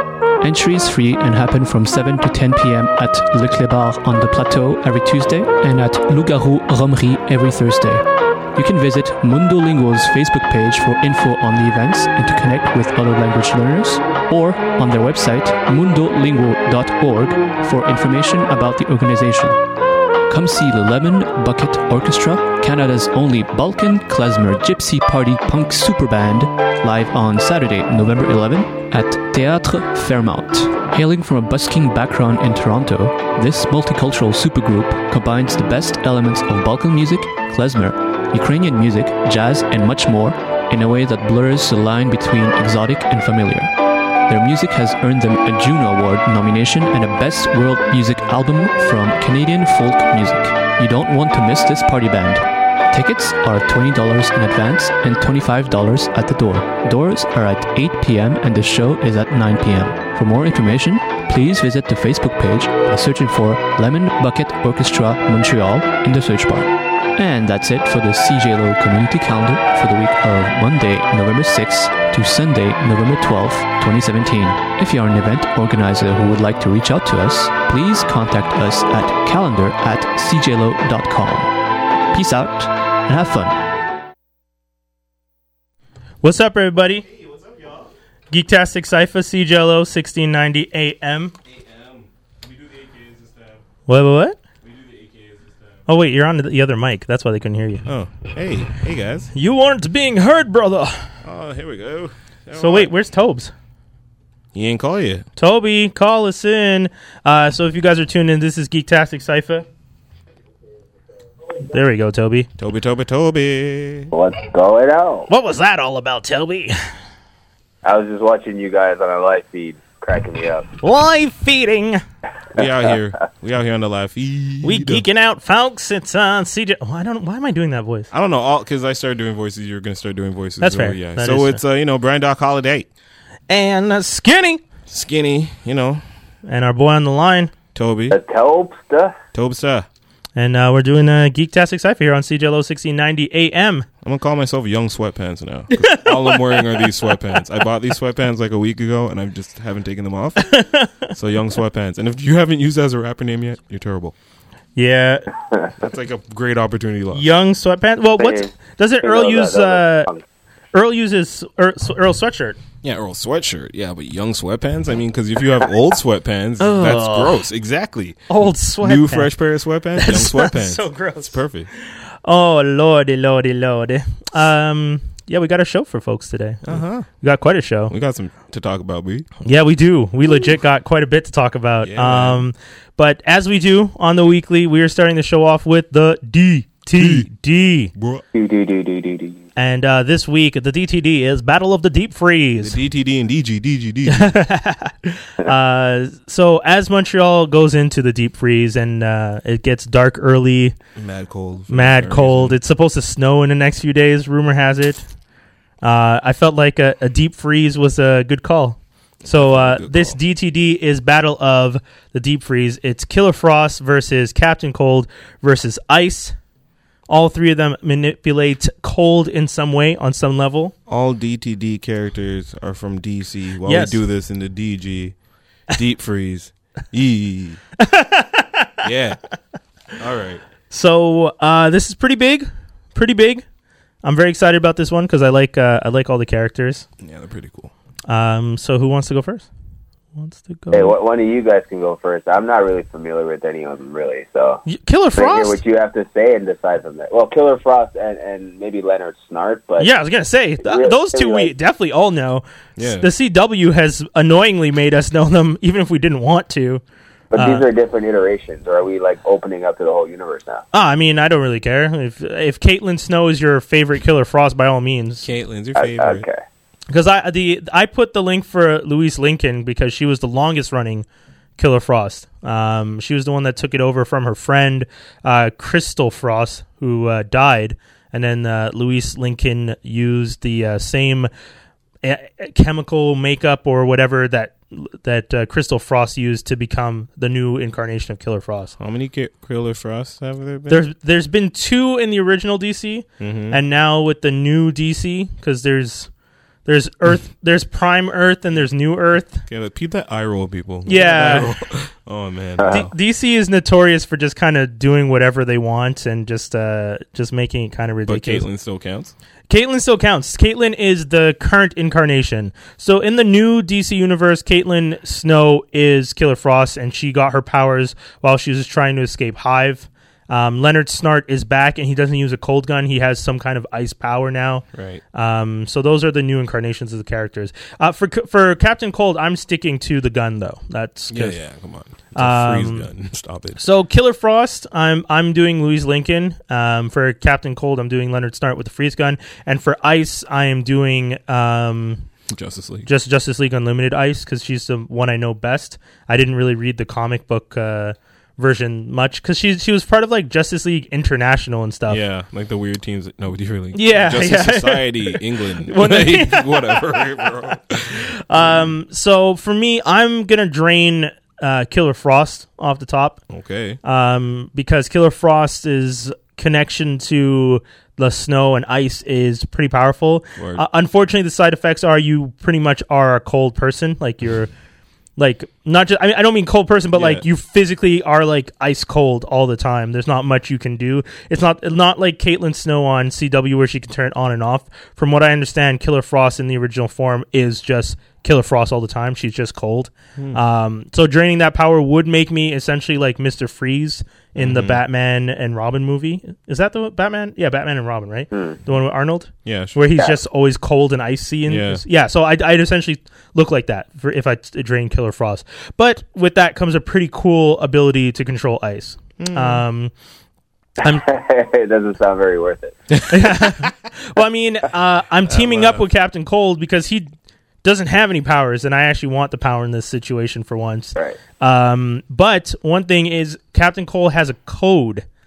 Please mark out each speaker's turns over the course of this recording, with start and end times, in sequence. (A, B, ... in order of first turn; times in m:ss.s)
0:00.4-0:08.0 A
0:08.5-0:19.6 A
0:20.3-0:43.7 A
0:44.3-1:21.6 A
1:22.1-1:23.6 A
1:26.2-1:27.0 B
1:27.0-1:27.9 C
1:28.3-1:31.3 B
1:31.4-1:33.6 C
1:33.9-1:34.4 B
1:34.6-1:35.8 C
1:35.9-1:37.8 B
1:37.8-1:39.3 C
1:39.3-1:41.1 B
1:41.2-1:42.9 C
1:42.6-1:43.5 B
1:44.5-1:45.2 C
1:45.4-1:49.6 B
1:51.7-1:52.5 B
1:52.6-1:54.1 C
1:54.1-1:55.3 D
1:55.3-1:56.7 B
1:57.8-2:00.7 D
2:00.8-2:02.0 B
2:02.5-2:05.0 C
2:04.6-2:08.1 B
2:08.1-2:12.9 C
2:10.6-2:11.6 B
2:13.5-2:14.6 B
2:14.9-2:16.0 C
2:16.4-2:17.5 B
2:17.7-2:18.2 C
2:18.1-2:19.2 D
2:19.3-2:19.9 C
2:20.4-2:23.8 B
2:24.0-2:30.5 C
2:25.7-2:26.9 B
2:30.5-2:31.1 B
2:31.1-2:34.1 C
2:34.8-2:35.3 B
2:35.8-2:37.2 C
2:37.1-2:40.1 B
2:38.2-2:38.5 D
2:39.0-2:40.2 D
2:40.7-2:42.6 B
2:42.8-2:48.3 C
2:46.6-2:47.4 B
2:48.3-2:49.3 B
2:48.8-2:51.7 C
2:50.0-2:57.9 B
2:56.6-2:57.1 C
2:57.9-2:59.3 C
2:59.4-3:07.9 B
3:01.8-3:02.4 C
3:06.9-3:07.3 C
3:07.9-3:08.2 C
3:08.3-3:09.4 D
3:09.6-3:12.8 B
3:12.6-3:14.4 C
3:14.1-3:20.8 B
3:21.0-3:22.6 C
3:21.7-3:25.0 B
3:25.8-3:36.3 B
3:29.2-3:30.2 C
3:37.1-3:40.7 B
3:40.9-3:45.2 C
3:43.6-3:44.0 B
3:45.7-3:47.6 C
3:47.8-3:48.8 B
3:48.8-3:49.2 C
3:50.0-3:50.4 C
3:50.7-3:53.4 B
3:54.0-3:56.8 B
3:57.0-3:57.7 C
3:58.1-3:59.5 B
4:00.2-4:00.9 B
4:00.7-4:04.6 D
4:04.7-4:05.6 B
4:05.2-4:09.9 D
4:09.8-4:16.8 B
4:10.6-4:11.5 D
4:12.8-4:13.1 C
4:17.3-4:20.6 D
4:17.3-4:17.6 B
4:20.7-4:25.2 B
4:25.2-4:26.2 C
4:25.8-4:26.4 D
4:26.9-4:31.0 B
4:31.6-4:41.3 B
4:42.0-4:48.7 B
4:48.8-4:50.8 C
4:50.7-4:56.1 B
4:53.2-4:53.6 C
4:56.6-4:59.4 B
4:59.5-5:02.9 C
5:00.8-5:01.5 B
5:02.6-5:02.8 D
5:02.6-5:08.4 B
5:08.1-5:09.1 C
5:09.5-5:31.4 B
5:24.7-5:25.0 C
5:31.1-5:33.6 C
5:32.1-5:32.9 B
5:33.6-5:42.1 B
5:42.3-5:42.9 C
5:42.8-5:52.0 B
5:51.9-5:58.7 C
5:53.7-5:57.3 B
5:58.2-6:03.2 B
6:03.3-6:03.8 C
6:03.8-6:14.5 B
6:10.4-6:10.6 C
6:15.2-6:49.9 B
6:16.9-6:17.2 C
6:34.4-6:34.8 C
6:39.4-6:39.8 C
6:41.4-6:41.8 C
6:49.2-6:49.6 C
6:50.8-6:53.0 D
6:52.9-6:53.7 C
6:53.1-6:57.1 B
6:55.3-6:55.8 C
6:57.6-7:05.0 B